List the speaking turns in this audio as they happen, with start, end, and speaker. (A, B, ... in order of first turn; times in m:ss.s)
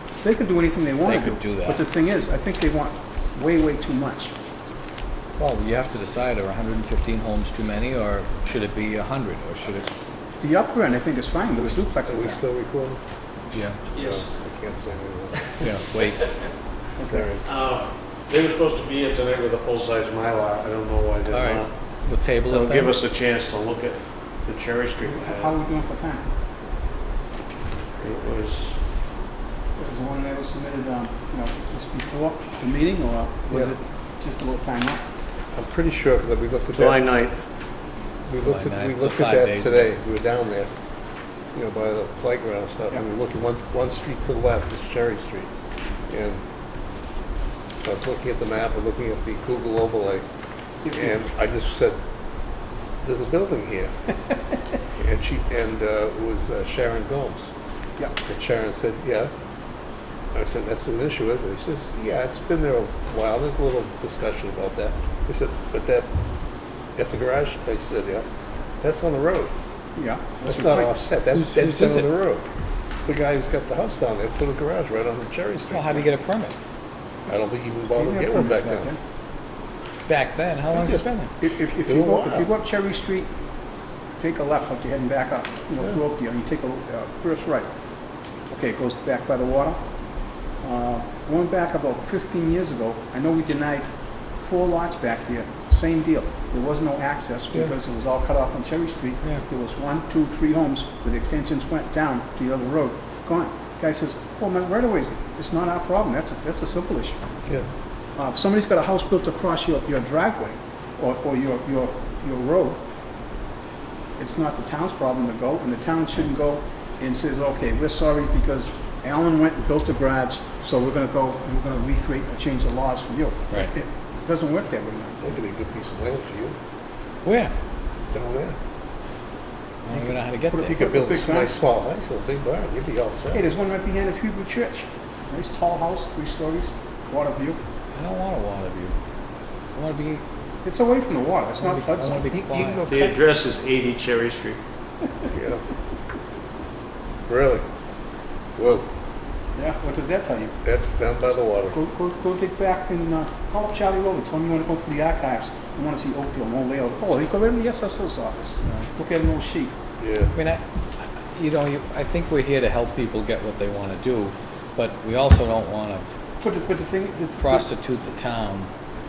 0:00.2-0:04.4 A
0:01.0-0:01.8 B
0:05.4-0:09.9 B
0:10.4-0:12.4 A
0:11.6-0:13.0 C
0:13.5-0:13.8 B
0:13.9-0:14.3 D
0:14.0-0:15.7 C
0:15.6-0:16.3 B
0:17.0-0:17.3 A
0:17.0-0:17.4 C
0:17.4-0:21.8 D
0:21.3-0:23.0 B
0:22.5-0:25.5 D
0:25.1-0:26.2 A
0:28.0-0:28.8 D
0:29.8-0:35.0 A
0:35.5-0:37.0 C
0:36.7-0:37.4 D
0:38.3-0:40.7 C
0:38.4-0:40.0 B
0:41.5-0:45.5 C
0:46.1-0:46.4 C
0:47.8-0:50.2 C
0:50.8-0:51.2 A
0:50.9-0:52.0 C
0:53.0-0:53.9 C
0:55.0-0:57.5 C
0:58.2-0:59.3 C
1:00.3-1:06.1 C
1:07.0-1:08.3 C
1:08.8-1:09.5 C
1:10.0-1:10.9 A
1:10.4-1:12.4 C
1:11.3-1:12.1 B
1:13.1-1:16.1 C
1:15.7-1:16.5 B
1:17.3-1:18.9 C
1:18.0-1:19.0 A
1:20.1-1:21.3 B
1:20.7-1:23.3 A
1:21.9-1:22.5 C
1:24.2-1:27.7 A
1:28.5-1:29.8 A
1:30.6-1:33.9 A
1:34.4-1:47.2 A
1:48.2-1:52.8 A
1:54.2-2:05.4 A
2:05.2-2:06.6 C
2:07.2-2:07.5 B
2:08.1-2:08.6 C
2:09.8-2:10.8 B
2:09.9-2:11.6 A
2:10.7-2:13.4 C
2:13.3-2:17.6 A
2:17.9-2:19.0 B
2:19.8-2:20.2 B
2:20.6-2:23.0 A
2:21.6-2:22.9 B
2:22.9-2:24.6 D
2:25.3-2:25.6 C
2:27.3-2:27.6 C
2:28.6-2:28.9 C
2:29.6-2:30.6 A
2:30.6-2:31.8 C
2:31.7-2:39.8 A
2:40.0-2:40.3 C
2:40.3-2:46.0 B
2:46.4-2:47.7 A
2:47.4-2:48.7 B